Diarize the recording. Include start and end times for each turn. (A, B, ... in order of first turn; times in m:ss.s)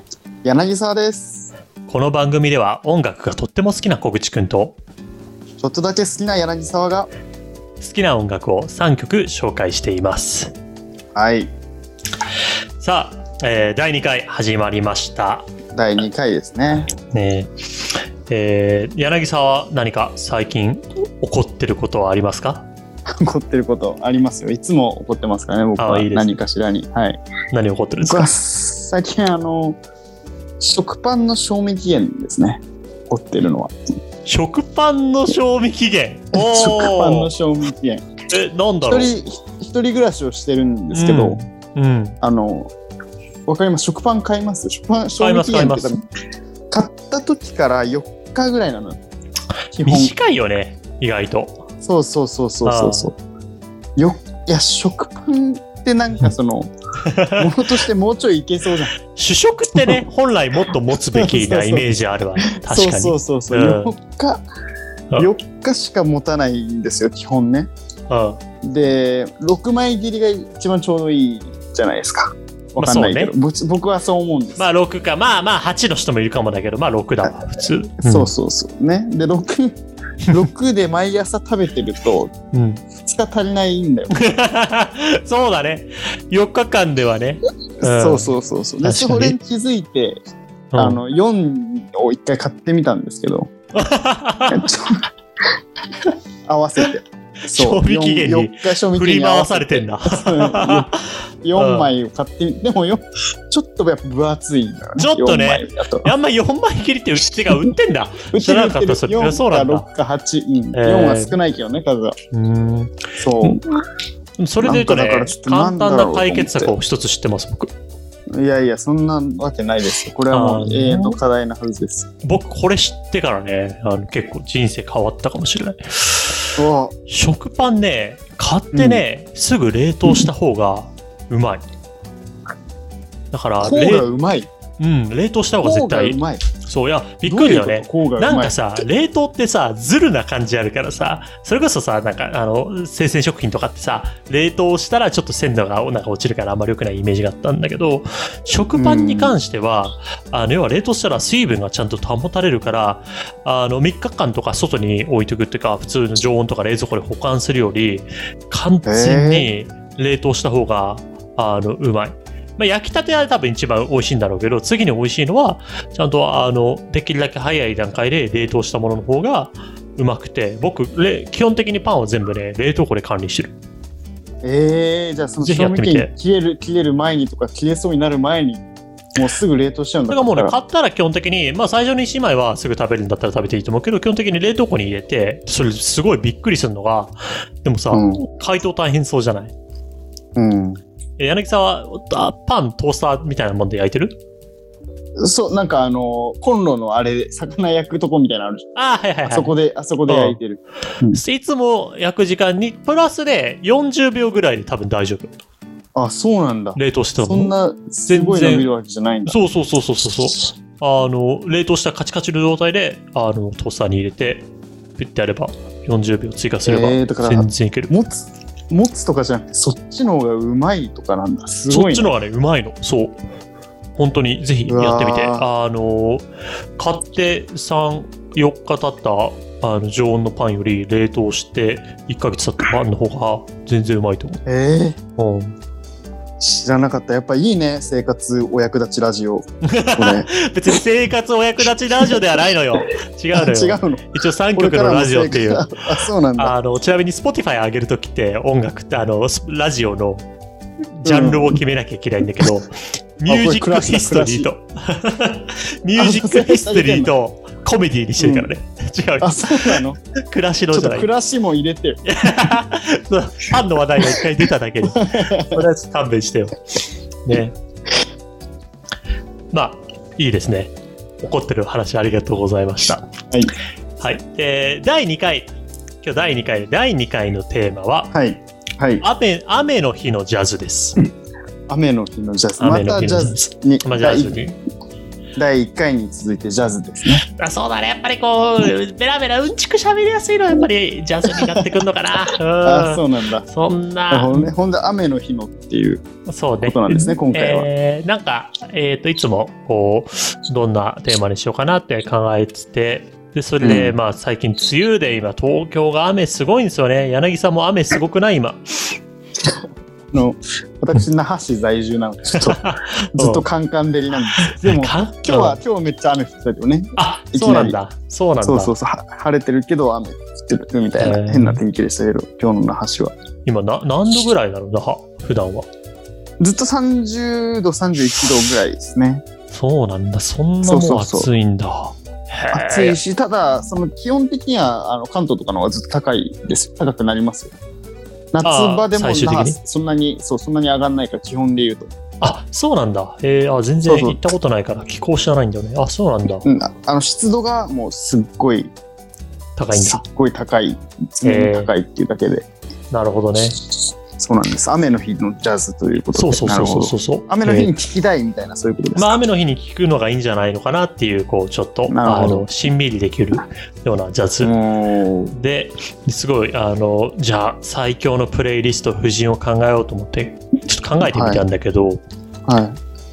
0:00.4-0:01.5 A
0:01.9-0:04.8 B
0:05.6-0:07.1 A
0:07.8-0:10.5 B
0:11.1-0:11.5 A
0:12.8-0:15.4 B
0:15.7-0:16.9 A
0:16.7-0:17.5 B
0:18.3-0:22.7 B
0:23.2-0:27.2 A
0:25.8-0:26.3 B
0:27.5-0:28.3 B
0:28.0-0:29.8 A
0:30.6-0:33.7 A
0:34.2-0:37.3 B
0:36.3-0:38.0 A
0:38.3-0:39.1 B
0:38.9-0:41.4 A
0:40.9-0:42.2 B
0:42.2-0:42.7 A
0:43.5-0:46.0 A
0:45.2-0:45.9 B
0:46.7-0:49.0 A
0:49.8-0:50.1 A
0:49.8-0:51.6 B
0:51.8-0:53.1 A
0:52.6-0:53.1 B
0:54.0-0:56.7 A
0:57.1-0:57.4 B
0:57.4-0:58.9 A
0:59.1-1:03.9 B
1:01.1-1:01.8 A
1:02.5-1:04.4 A
1:05.2-1:07.7 A
1:08.1-1:08.4 B
1:08.6-1:14.6 A
1:12.8-1:13.3 B
1:14.6-1:18.3 B
1:18.0-1:19.8 A
1:20.3-1:22.3 A
1:22.5-1:22.8 B
1:23.0-1:24.2 A
1:24.2-1:28.3 B
1:27.8-1:30.2 A
1:28.8-1:29.4 B
1:30.7-1:31.0 B
1:30.8-1:33.5 A
1:33.8-1:34.6 B
1:34.5-1:35.0 A
1:36.4-1:40.9 A
1:37.4-1:40.8 B
1:41.4-1:46.1 A
1:41.6-1:41.9 B
1:45.0-1:49.9 B
1:48.3-1:52.1 A
1:50.7-1:51.4 B
1:52.3-1:53.8 B
1:53.2-1:53.6 A
1:54.4-1:57.7 B
1:54.6-1:56.7 A
1:58.3-2:02.1 A
2:00.3-2:01.2 B
2:02.2-2:06.5 B
2:06.6-2:06.9 A
2:07.1-2:11.6 B
2:08.7-2:09.0 A
2:13.3-2:14.0 B
2:13.6-2:14.5 A
2:14.8-2:53.5 B
2:15.6-2:16.4 A
2:17.2-2:18.6 A
2:28.8-2:29.4 A
2:38.8-2:39.5 A
2:54.4-2:58.6 A
2:55.4-2:56.1 B
2:59.2-3:00.6 A
3:00.1-3:09.5 B
3:07.9-3:08.2 A
3:10.4-3:10.8 A
3:11.2-3:14.2 B
3:15.2-3:18.7 A
3:18.8-3:19.5 B
3:19.2-3:21.2 A
3:20.1-3:20.4 B
3:21.1-3:25.3 B
3:25.9-3:29.4 A
3:26.8-3:27.5 B
3:28.1-3:28.7 B
3:29.3-3:37.9 B
3:36.6-3:42.1 A
3:41.7-3:43.2 B
3:43.9-3:46.2 B
3:44.7-3:45.4 A
3:46.8-3:54.4 B
3:54.4-3:55.0 A
3:55.2-3:55.5 B
3:56.4-4:00.3 A
3:59.6-4:10.2 B
4:03.3-4:06.5 A
4:10.9-4:21.1 B
4:11.0-4:11.6 A
4:13.3-4:14.5 A
4:16.0-4:17.1 A
4:18.2-4:18.5 A
4:19.2-4:20.0 A
4:20.7-4:22.0 A
4:22.0-4:26.6 B
4:24.8-4:25.6 A
4:27.2-4:27.5 B
4:29.5-4:33.1 B
4:34.0-4:35.5 B
4:36.0-4:38.1 B
4:38.1-4:39.0 A
4:39.0-4:41.0 B
4:41.7-4:44.4 A
4:42.6-4:44.6 B
4:45.4-4:47.2 A
4:47.4-4:54.5 B
4:51.3-4:51.6 A
4:52.6-4:53.5 A
4:54.1-4:56.0 A
4:56.2-5:08.9 B
4:56.6-4:57.7 A
5:03.6-5:03.9 A
5:10.1-5:17.8 A
5:12.4-5:13.4 B
5:14.4-5:15.6 B
5:17.0-5:18.7 B
5:18.4-5:23.1 A
5:21.0-5:21.6 B
5:23.4-5:25.7 B
5:26.4-5:29.2 A
5:29.5-5:33.0 B
5:30.6-5:31.3 A
5:32.5-5:37.5 A
5:38.3-5:41.9 A
5:38.4-5:39.6 B
5:42.2-5:46.5 B
5:43.8-5:44.2 A
5:46.4-5:48.7 A
5:49.6-5:50.0 B
5:49.7-5:52.5 A
5:51.2-5:51.7 B
5:52.9-5:53.6 B
5:54.2-5:59.2 A
5:56.1-5:57.7 B
5:59.0-6:04.5 B
6:01.9-6:02.5 A
6:04.4-6:05.3 A
6:05.3-6:12.0 B
6:11.0-6:11.4 A
6:12.5-6:12.8 A